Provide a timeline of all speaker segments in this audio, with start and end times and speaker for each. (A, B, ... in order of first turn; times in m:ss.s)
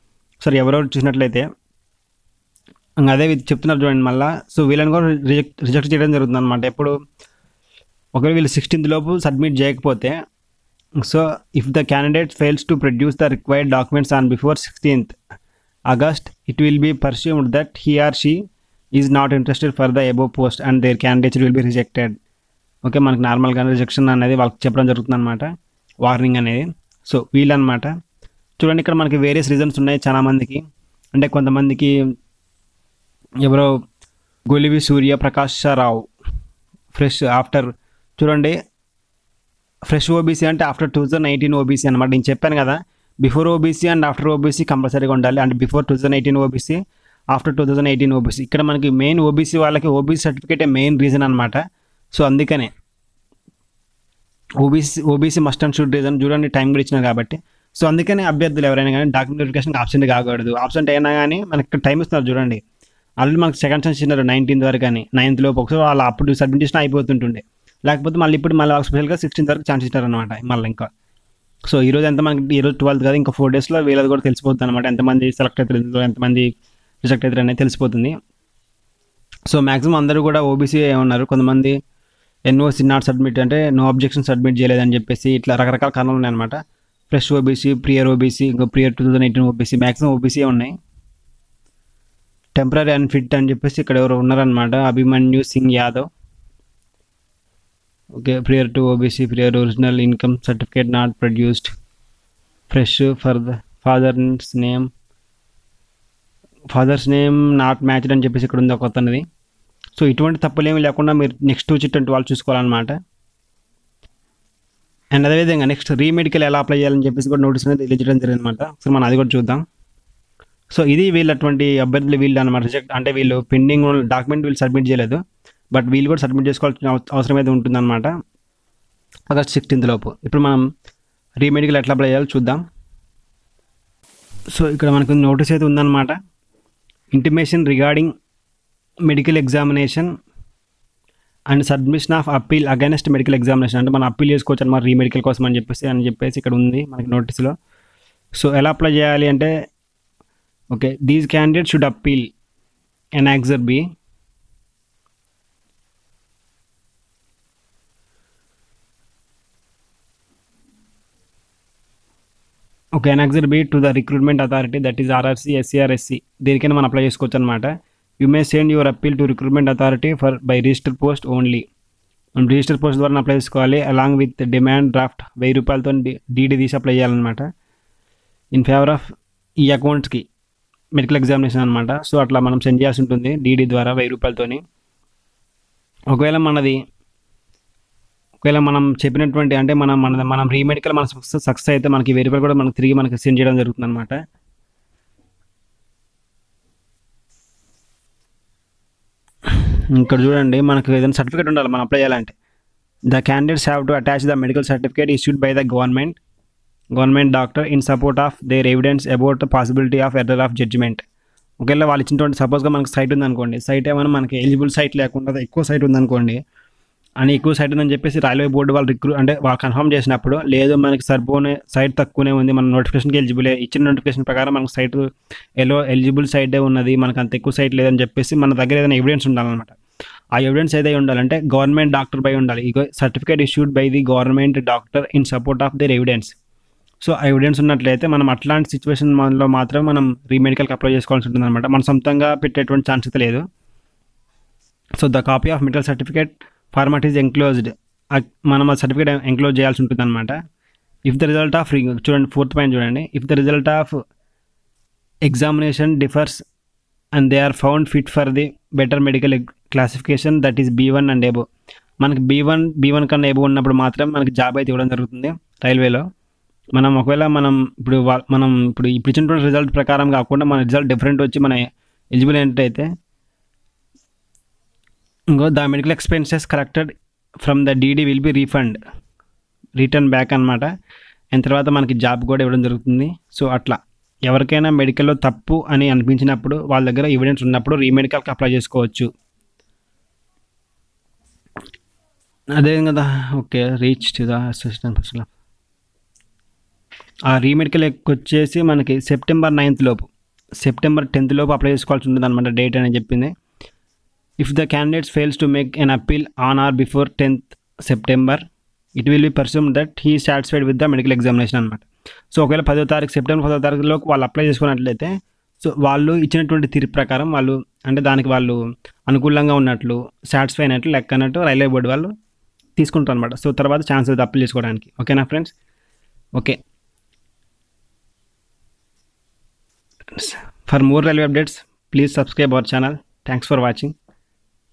0:00.4-0:01.4 A
0:03.0-0:06.9 A
0:08.1-0:10.2 A
0:11.0-0:15.2 A
0:15.9-0:18.4 A
0:19.0-0:22.1 A
0:22.8-0:25.5 A
0:26.0-0:27.9 A
0:28.6-0:30.6 A
0:31.1-0:31.9 A
0:33.4-0:33.7 A
0:34.5-0:36.0 A
0:36.9-0:38.6 A
0:39.9-0:46.8 A
0:47.3-0:51.6 A
0:52.1-0:52.7 A
0:54.6-1:02.6 A
1:03.2-1:10.9 A
1:11.7-1:16.5 A
1:17.0-1:18.1 A
1:19.5-1:21.8 A
1:22.5-1:26.6 A
1:27.1-1:30.7 A
1:32.5-1:36.1 A
1:38.2-1:41.7 A
1:42.7-1:44.9 A
1:46.7-1:49.2 A
1:50.0-1:53.0 A
1:55.2-1:59.6 A
2:00.7-2:05.2 A
2:05.7-2:08.1 A
2:09.3-2:10.6 A
2:11.4-2:12.6 A
2:14.5-2:16.2 A
2:17.1-2:18.1 A
2:19.1-2:20.1 A
2:21.5-2:27.5 A
2:28.4-2:29.5 A
2:30.7-2:32.3 A
2:33.2-2:33.9 A
2:43.0-2:51.6 A
2:52.4-2:57.5 A
2:58.5-2:59.0 A
2:59.6-3:00.2 A
3:01.0-3:04.6 A
3:06.1-3:06.8 A
3:08.4-3:14.2 A
3:19.5-3:22.3 A
3:23.1-3:26.2 A
3:26.9-3:31.0 A
3:31.6-3:36.4 A
3:37.2-3:45.0 A
3:45.6-3:49.8 A
3:50.4-3:56.3 A
3:57.0-4:03.4 A
4:05.0-4:10.4 A
4:11.0-4:14.0 A
4:15.3-4:16.4 A
4:17.2-4:21.4 A
4:22.0-4:26.0 A
4:26.7-4:32.9 A
4:35.3-4:38.8 A
4:39.8-4:40.7 A
4:41.3-4:49.1 A
4:52.6-4:55.3 A
4:57.3-5:03.3 A
5:04.4-5:08.4 A
5:09.0-5:22.1 A
5:22.8-5:25.5 A
5:30.1-5:33.9 A